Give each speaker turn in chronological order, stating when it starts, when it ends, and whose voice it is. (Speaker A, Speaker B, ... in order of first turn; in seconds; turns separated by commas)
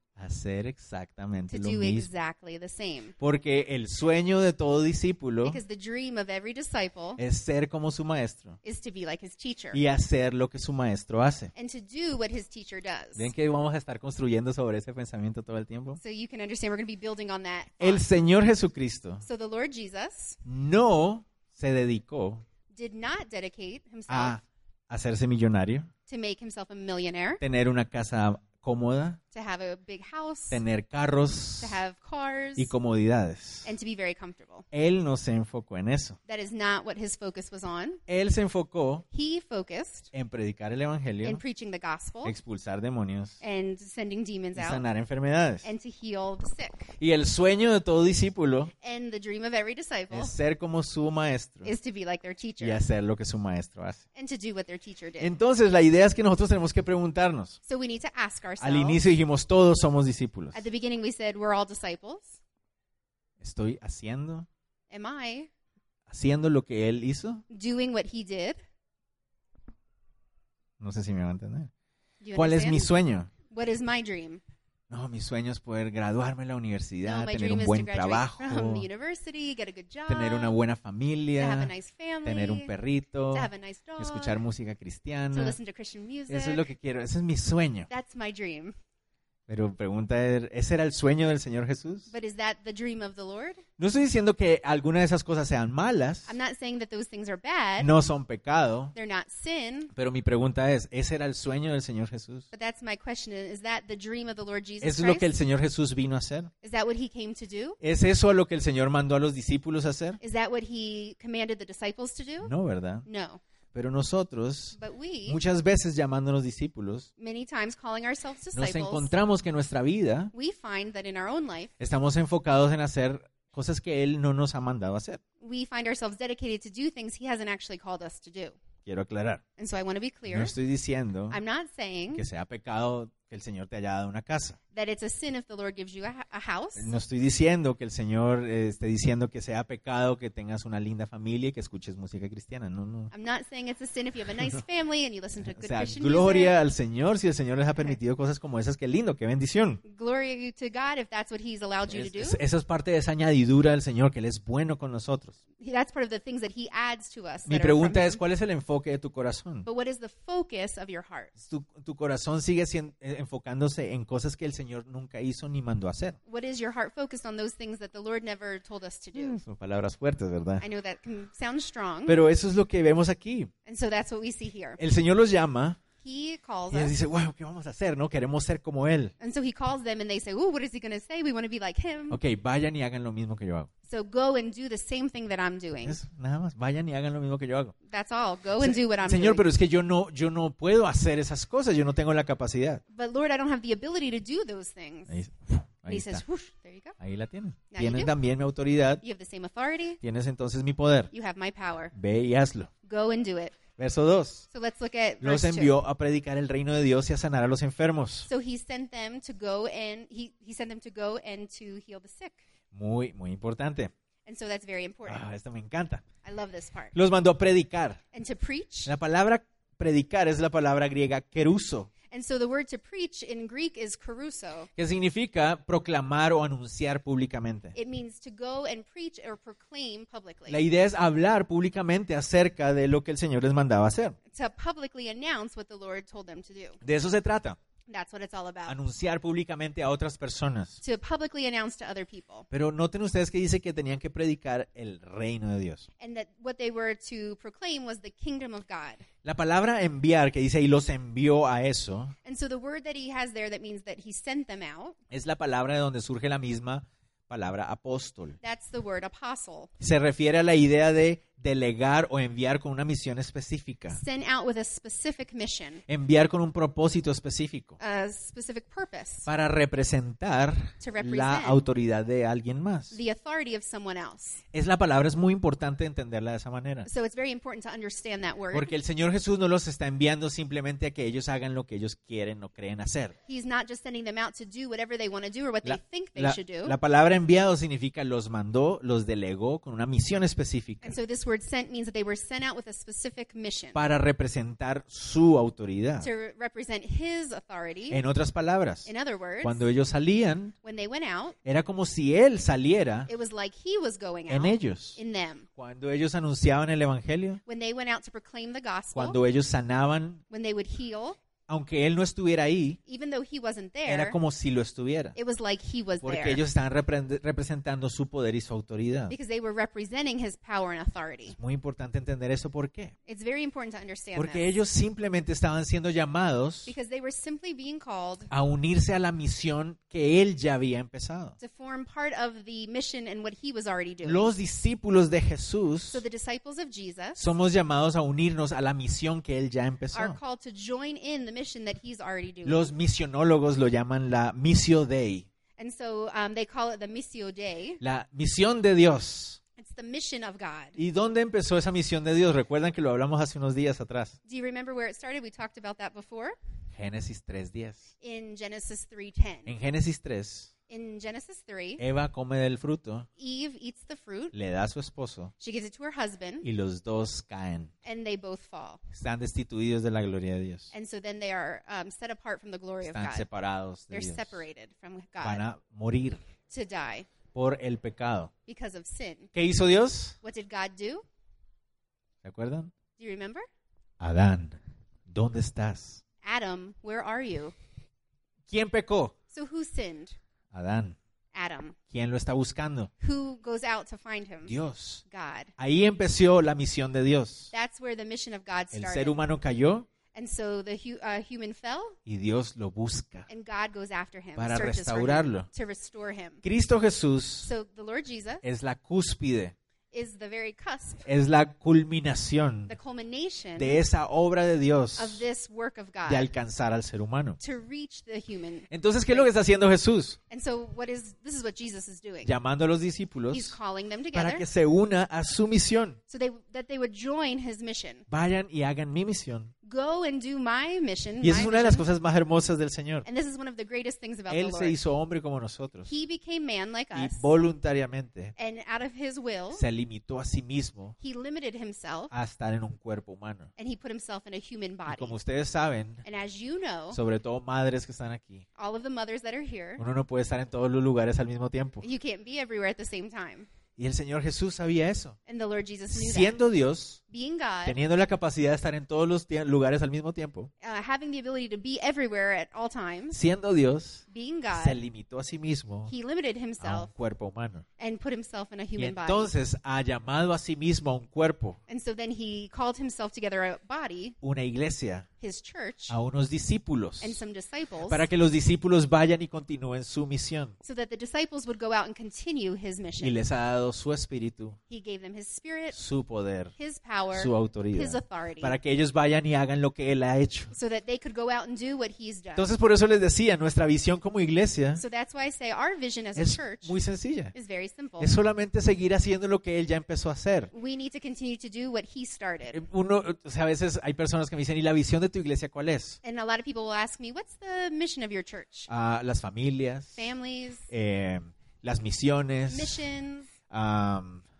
Speaker A: 0.2-2.1, Speaker B: 1.5-3.1, Speaker A: 3.2-5.6, Speaker B: 5.4-7.2, Speaker A: 7.2-8.6, Speaker B: 8.6-9.8, Speaker A: 9.7-11.5, Speaker B: 11.5-13.3, Speaker A: 13.2-16.0, Speaker B: 16.0-18.0, Speaker A: 17.8-19.2, Speaker B: 19.2-20.4, Speaker A: 20.4-22.4, Speaker B: 22.7-24.4, Speaker A: 24.1-25.9, Speaker B: 26.1-27.4, Speaker A: 27.4-29.2, Speaker B: 29.3-30.6, Speaker A: 30.5-31.8, Speaker B: 31.6-32.7, Speaker A: 32.5-33.7, Speaker B: 33.6-34.6, Speaker A: 34.7-36.2, Speaker B: 36.3-38.0, Speaker A: 38.1-39.0, Speaker B: 39.1-40.1, Speaker A: 40.1-41.4, Speaker B: 41.2-42.3, Speaker A: 42.2-43.4, Speaker B: 43.4-44.8, Speaker A: 44.5-45.7, Speaker B: 45.6-46.9, Speaker A: 47.0-48.7, Speaker B: 48.8-50.3, Speaker A: 50.1-51.7, Speaker B: 51.6-52.8, Speaker A: 52.6-54.0, Speaker B: 54.1-55.3, Speaker A: 55.2-57.6, Speaker B: 57.6-59.0, Speaker A: 58.6-60.6, Speaker B: 60.5-62.4, Speaker A: 63.4-64.5, Speaker B: 64.9-65.5, Speaker A: 66.1-67.4, Speaker B: 67.5-68.6, Speaker A: 70.8-71.7, Speaker B: 72.2-72.9, Speaker A: 72.3-73.3, Speaker B: 73.5-74.4, Speaker A: 74.9-78.9, Speaker B: 77.0-80.5, Speaker A: 80.1-81.7, Speaker B: 81.4-82.7, Speaker A: 82.2-85.6, Speaker B: 83.3-84.4, Speaker B: 85.3-86.7, Speaker A: 86.3-87.9, Speaker B: 87.9-88.7, Speaker A: 89.5-92.1, Speaker B: 92.1-93.6, Speaker A: 93.8-96.3, Speaker B: 96.3-97.9, Speaker A: 97.8-98.9, Speaker B: 98.9-99.9, Speaker A: 99.9-102.5, Speaker B: 102.5-105.3, Speaker A: 104.8-106.5, Speaker B: 106.6-107.8, Speaker A: 107.8-110.2, Speaker B: 110.2-112.5, Speaker A: 112.4-113.0, Speaker B: 113.0-113.4, Speaker A: 113.7-117.1, Speaker B: 114.7-115.4, Speaker B: 117.2-119.1, Speaker A: 118.5-120.3, Speaker B: 120.3-121.7, Speaker A: 121.8-125.2, Speaker B: 125.4-128.6, Speaker A: 128.8-129.4, Speaker B: 129.6-130.5, Speaker A: 130.3-131.4, Speaker B: 131.3-132.2, Speaker A: 132.1-134.6, Speaker B: 134.7-136.9, Speaker A: 136.8-143.1, Speaker B: 143.1-146.6, Speaker A: 145.4-149.8, Speaker B: 149.8-152.4, Speaker A: 151.9-155.4, Speaker B: 155.6-158.2, Speaker A: 157.4-159.7, Speaker B: 159.6-161.3, Speaker A: 161.4-166.2, Speaker B: 166.3-169.4, Speaker A: 169.1-170.6, Speaker B: 170.6-172.2, Speaker A: 172.1-173.5, Speaker B: 173.6-174.8, Speaker A: 174.8-175.8, Speaker B: 176.0-176.9, Speaker A: 176.7-179.1, Speaker B: 179.2-182.2, Speaker A: 182.1-183.7, Speaker B: 183.8-186.0, Speaker A: 185.8-187.7, Speaker B: 187.8-189.5, Speaker A: 188.6-192.8, Speaker B: 192.9-195.2, Speaker A: 195.1-196.2, Speaker B: 195.9-197.0, Speaker A: 197.0-199.0, Speaker B: 197.7-198.1, Speaker B: 199.0-200.0, Speaker A: 200.0-201.1, Speaker B: 201.1-201.9, Speaker A: 201.9-202.7, Speaker B: 202.8-203.6, Speaker A: 203.8-204.5, Speaker B: 204.5-205.8, Speaker A: 205.2-208.3, Speaker B: 208.3-212.4, Speaker A: 212.7-213.9, Speaker B: 214.2-215.2, Speaker A: 215.1-216.0, Speaker B: 216.2-216.9, Speaker A: 216.9-218.0, Speaker B: 218.1-218.9, Speaker A: 218.8-221.9, Speaker B: 222.1-224.7, Speaker A: 224.8-227.8, Speaker B: 227.7-230.6, Speaker A: 230.5-234.2, Speaker B: 234.3-236.8, Speaker A: 236.8-237.6, Speaker B: 237.9-238.8, Speaker A: 238.7-240.8, Speaker B: 240.8-242.5, Speaker A: 242.5-245.9, Speaker B: 246.0-249.0, Speaker A: 249.2-252.1, Speaker B: 252.2-255.0, Speaker A: 255.1-258.4, Speaker B: 258.4-259.7, Speaker A: 259.8-264.0, Speaker B: 263.9-265.8, Speaker A: 265.9-267.8, Speaker B: 267.8-269.3, Speaker A: 269.3-273.0, Speaker B: 270.8-271.6, Speaker B: 272.9-274.4, Speaker A: 274.5-276.9, Speaker B: 276.9-278.7, Speaker A: 278.5-283.1, Speaker B: 283.3-286.8, Speaker A: 285.6-291.0, Speaker B: 290.8-293.8, Speaker A: 293.7-296.1, Speaker B: 296.0-298.0, Speaker A: 297.9-298.9, Speaker B: 298.9-299.6, Speaker A: 299.4-300.5, Speaker B: 300.6-301.4, Speaker A: 301.4-303.1, Speaker B: 303.1-305.5, Speaker A: 304.3-305.0, Speaker A: 305.6-307.4, Speaker B: 307.4-309.2, Speaker A: 308.9-310.2, Speaker B: 310.3-311.2, Speaker A: 311.5-312.8, Speaker B: 312.9-314.2, Speaker A: 313.9-315.1, Speaker B: 315.1-316.4, Speaker A: 316.0-319.1, Speaker B: 319.1-321.4, Speaker A: 321.3-322.9, Speaker B: 323.1-324.5, Speaker A: 324.1-326.7, Speaker B: 326.7-328.3, Speaker A: 328.3-331.4, Speaker B: 331.4-334.3, Speaker A: 334.0-336.0, Speaker B: 335.9-337.2, Speaker A: 337.1-340.2, Speaker B: 339.9-342.7, Speaker A: 342.4-345.3, Speaker B: 345.6-347.8, Speaker A: 347.8-349.4, Speaker B: 349.6-350.8, Speaker A: 350.8-354.2, Speaker B: 354.2-356.4, Speaker A: 356.7-357.9, Speaker B: 358.0-359.5, Speaker A: 359.4-360.5, Speaker B: 360.7-361.8, Speaker A: 361.8-363.1, Speaker B: 363.2-364.3, Speaker A: 364.3-365.3, Speaker B: 365.4-366.4, Speaker A: 366.4-367.7, Speaker B: 367.8-368.8, Speaker A: 368.9-370.7, Speaker B: 370.7-373.3, Speaker A: 372.8-374.4, Speaker B: 373.9-375.4, Speaker A: 375.2-376.2, Speaker B: 376.5-377.1, Speaker A: 377.3-378.3, Speaker B: 378.5-379.3, Speaker A: 379.3-380.2, Speaker B: 380.2-381.0, Speaker A: 382.2-382.7, Speaker B: 383.0-383.4, Speaker A: 384.0-386.0, Speaker B: 386.2-387.5, Speaker A: 388.5-389.1, Speaker B: 389.3-390.2, Speaker A: 390.5-391.0, Speaker B: 391.3-391.8, Speaker A: 391.9-392.9, Speaker B: 393.0-394.5, Speaker A: 394.4-395.0, Speaker B: 395.1-395.5, Speaker A: 395.6-397.5, Speaker B: 397.5-399.2, Speaker A: 398.7-399.9, Speaker B: 400.1-402.0, Speaker A: 402.1-403.3, Speaker B: 403.3-406.4, Speaker A: 404.4-405.5, Speaker A: 406.4-407.5, Speaker B: 407.4-408.4, Speaker A: 408.4-409.5, Speaker B: 409.9-411.0, Speaker A: 411.0-412.7, Speaker B: 412.7-413.8, Speaker A: 413.6-415.2, Speaker B: 415.0-416.3, Speaker A: 416.1-417.4, Speaker B: 417.4-419.3, Speaker A: 418.7-420.2, Speaker B: 420.3-422.3, Speaker A: 422.2-423.6, Speaker B: 423.3-424.4, Speaker A: 424.1-426.0, Speaker B: 426.1-428.1, Speaker A: 428.1-429.5, Speaker B: 429.6-431.8, Speaker A: 431.2-433.1, Speaker B: 433.0-434.8, Speaker A: 434.3-435.9, Speaker B: 435.9-437.2, Speaker A: 436.9-438.3, Speaker B: 438.4-439.6, Speaker A: 439.5-440.9, Speaker B: 441.0-442.1, Speaker A: 442.1-443.5, Speaker B: 443.6-445.1, Speaker A: 444.9-446.0, Speaker B: 446.0-447.0, Speaker A: 446.9-448.4, Speaker B: 448.6-449.8, Speaker A: 449.8-451.9, Speaker B: 451.8-453.5, Speaker A: 453.8-455.1, Speaker B: 455.2-456.4, Speaker A: 455.9-457.0, Speaker B: 457.1-457.8, Speaker A: 457.6-460.5, Speaker B: 460.6-463.2, Speaker A: 463.1-465.9, Speaker B: 464.1-464.8, Speaker B: 465.9-466.9, Speaker A: 466.6-467.6, Speaker B: 467.8-469.3, Speaker A: 468.8-471.6, Speaker B: 471.7-474.2, Speaker A: 474.2-475.1, Speaker B: 475.2-475.9, Speaker A: 475.9-477.2, Speaker B: 477.0-478.1, Speaker A: 477.8-480.6, Speaker B: 480.6-483.2, Speaker A: 483.0-484.6, Speaker B: 484.7-485.8, Speaker A: 485.7-486.5, Speaker B: 486.6-488.6, Speaker A: 487.1-490.5, Speaker B: 490.5-492.5, Speaker A: 492.4-494.8, Speaker B: 494.8-496.7, Speaker A: 496.1-497.3, Speaker B: 497.3-498.1, Speaker A: 498.0-500.5, Speaker B: 500.5-502.6, Speaker A: 502.5-506.0, Speaker B: 506.0-508.7, Speaker A: 508.7-510.0, Speaker B: 509.9-510.7, Speaker A: 510.7-512.8, Speaker B: 512.5-513.3, Speaker A: 513.5-514.2